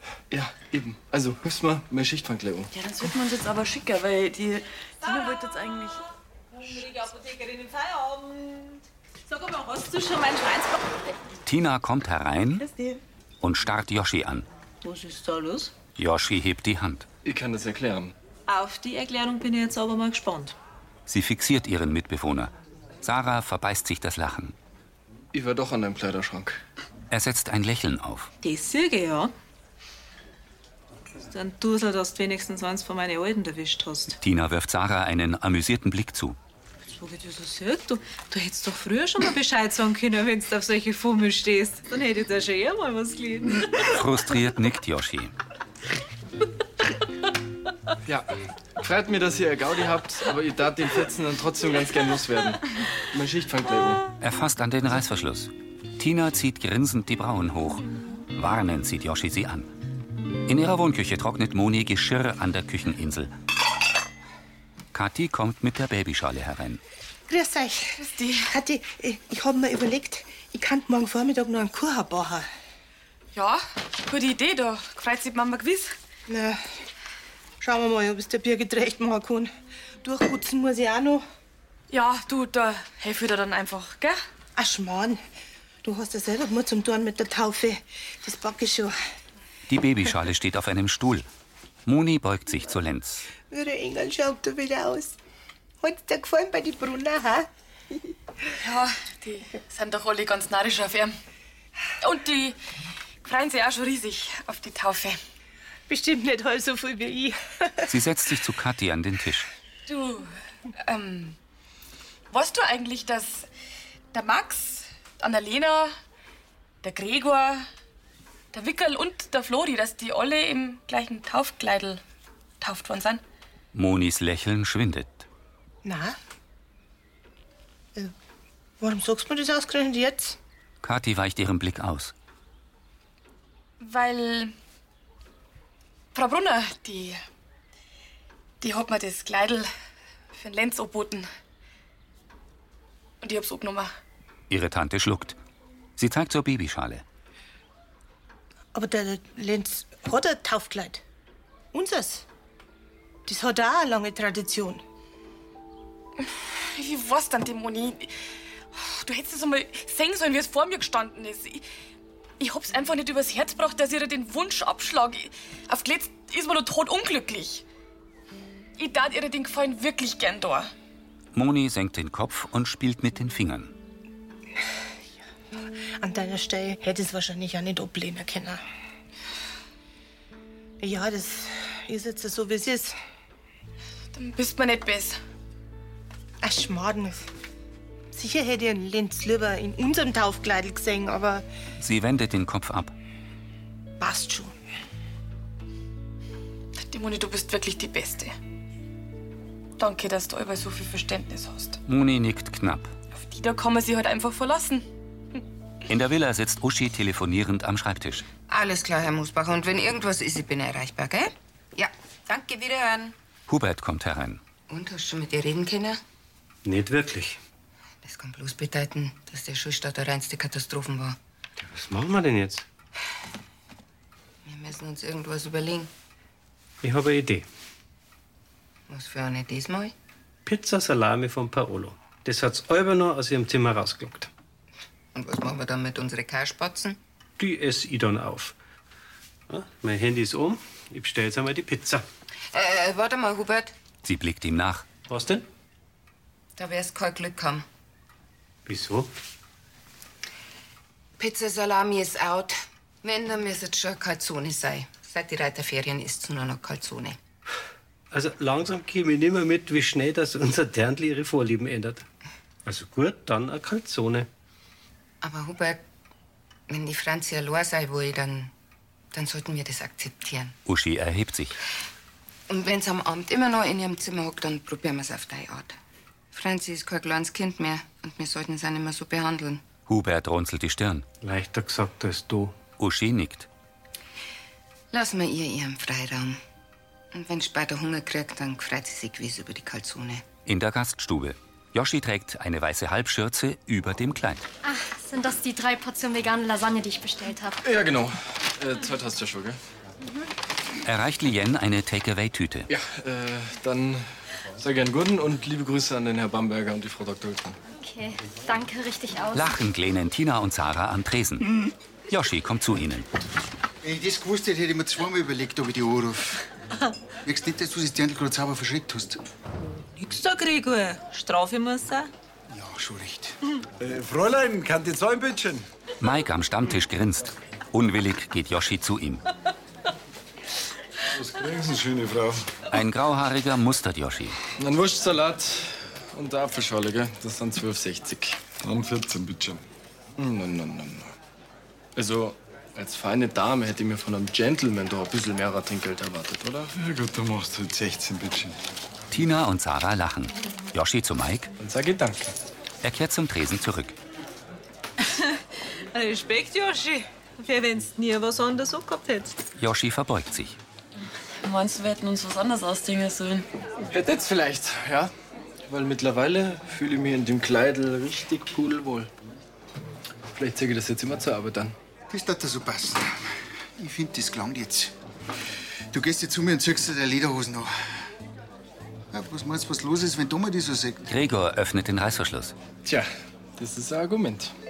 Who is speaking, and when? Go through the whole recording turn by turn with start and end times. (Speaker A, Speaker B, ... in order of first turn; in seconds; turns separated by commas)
Speaker A: 0.3-2.7, Speaker B: 2.7-6.0, Speaker C: 6.5-10.9, Speaker D: 11.5-12.7, Speaker D: 13.4-14.5, Speaker C: 14.8-15.7, Speaker D: 16.0-17.1, Speaker A: 17.2-18.1, Speaker C: 18.5-20.6, Speaker D: 21.1-24.6, Speaker A: 25.3-26.6, Speaker D: 27.1-28.3, Speaker C: 28.4-29.3, Speaker C: 31.3-34.2, Speaker D: 34.2-36.4, Speaker C: 36.9-43.7, Speaker D: 43.8-45.3, Speaker A: 48.1-54.0, Speaker D: 54.2-59.7, Speaker D: 60.5-63.3, Speaker D: 64.9-66.8, Speaker E: 67.3-68.0, Speaker F: 68.0-68.5, Speaker E: 68.5-72.5, Speaker F: 73.3-75.9, Speaker E: 76.3-76.6, Speaker E: 77.6-79.5, Speaker E: 80.0-81.2, Speaker F: 81.9-84.2, Speaker E: 84.6-85.2, Speaker E: 85.8-89.0, Speaker D: 89.7-91.3, Speaker D: 91.9-93.3, Speaker E: 93.5-95.2, Speaker E: 95.8-97.5, Speaker F: 98.6-101.2, Speaker F: 102.0-102.6, Speaker F: 103.2-105.2, Speaker E: 105.9-107.9, Speaker D: 107.9-109.5, Speaker F: 109.9-111.4, Speaker F: 112.3-113.5, Speaker F: 114.1-115.9, Speaker F: 116.8-117.7, Speaker F: 118.5-122.0, Speaker F: 122.6-123.2, Speaker D: 123.7-125.3, Speaker E: 125.8-126.2, Speaker E: 128.8-130.4, Speaker D: 130.8-132.1, Speaker F: 133.8-134.5, Speaker F: 136.1-137.2, Speaker F: 138.6-139.7, Speaker F: 140.3-141.3, Speaker F: 143.2-143.9, Speaker D: 144.5-145.4, Speaker D: 146.0-147.0, Speaker E: 148.7-151.0, Speaker E: 151.7-152.2, Speaker E: 153.3-154.8, Speaker F: 156.2-158.2, Speaker F: 158.7-161.7, Speaker F: 162.4-167.7, Speaker F: 168.8-170.7, Speaker D: 171.3-173.7, Speaker E: 176.0-178.6, Speaker E: 180.8-183.0, Speaker F: 184.1-185.2, Speaker E: 186.4-187.3, Speaker E: 188.1-191.5, Speaker D: 191.8-192.9, Speaker E: 194.0-194.6, Speaker F: 196.8-198.3, Speaker F: 199.8-201.8, Speaker D: 201.9-202.9, Speaker F: 203.1-204.9, Speaker D: 205.9-208.3, Speaker G: 208.5-213.2, Speaker D: 213.5-214.4, Speaker G: 214.7-216.0, Speaker H: 216.7-217.4, Speaker G: 218.0-221.2, Speaker H: 221.6-222.7, Speaker G: 224.4-225.9, Speaker H: 226.8-227.5, Speaker G: 228.9-229.9, Speaker H: 230.4-234.3, Speaker G: 235.1-237.0, Speaker H: 237.4-238.6, Speaker H: 239.5-242.0, Speaker G: 242.5-243.7, Speaker D: 244.0-244.9, Speaker H: 245.1-245.5, Speaker G: 246.6-247.7, Speaker H: 248.7-249.1, Speaker G: 251.2-257.2, Speaker H: 258.1-262.1, Speaker H: 262.7-264.3, Speaker G: 265.2-265.8, Speaker G: 266.7-268.5, Speaker G: 269.1-270.6, Speaker D: 270.7-271.6, Speaker G: 272.5-275.8, Speaker G: 276.3-279.6, Speaker D: 279.9-281.1, Speaker H: 281.2-282.6, Speaker D: 282.8-283.5, Speaker G: 284.9-286.4, Speaker G: 287.1-290.2, Speaker D: 290.5-294.4, Speaker I: 294.6-297.6, Speaker A: 297.6-299.6, Speaker D: 300.8-302.7, Speaker A: 302.7-304.0, Speaker A: 304.6-307.6, Speaker I: 307.8-309.5, Speaker D: 309.3-313.1, Speaker J: 313.8-316.4, Speaker J: 317.2-319.2, Speaker C: 319.8-322.1, Speaker J: 322.5-323.4, Speaker K: 323.8-325.7, Speaker D: 326.0-329.2, Speaker K: 331.1-332.5, Speaker D: 332.7-334.4, Speaker A: 334.6-338.4, Speaker K: 338.6-339.6, Speaker A: 340.2-341.1, Speaker A: 342.0-346.7, Speaker K: 346.8-348.6, Speaker D: 349.1-351.5, Speaker A: 351.6-352.3, Speaker D: 352.8-354.0, Speaker C: 355.0-355.4, Speaker C: 355.9-359.4, Speaker D: 359.6-360.6, Speaker F: 361.4-363.5, Speaker A: 363.9-365.1, Speaker A: 365.7-369.1, Speaker A: 370.3-371.8, Speaker J: 372.1-374.9, Speaker J: 375.9-377.7, Speaker J: 379.1-381.0, Speaker D: 381.1-382.6, Speaker A: 382.9-384.5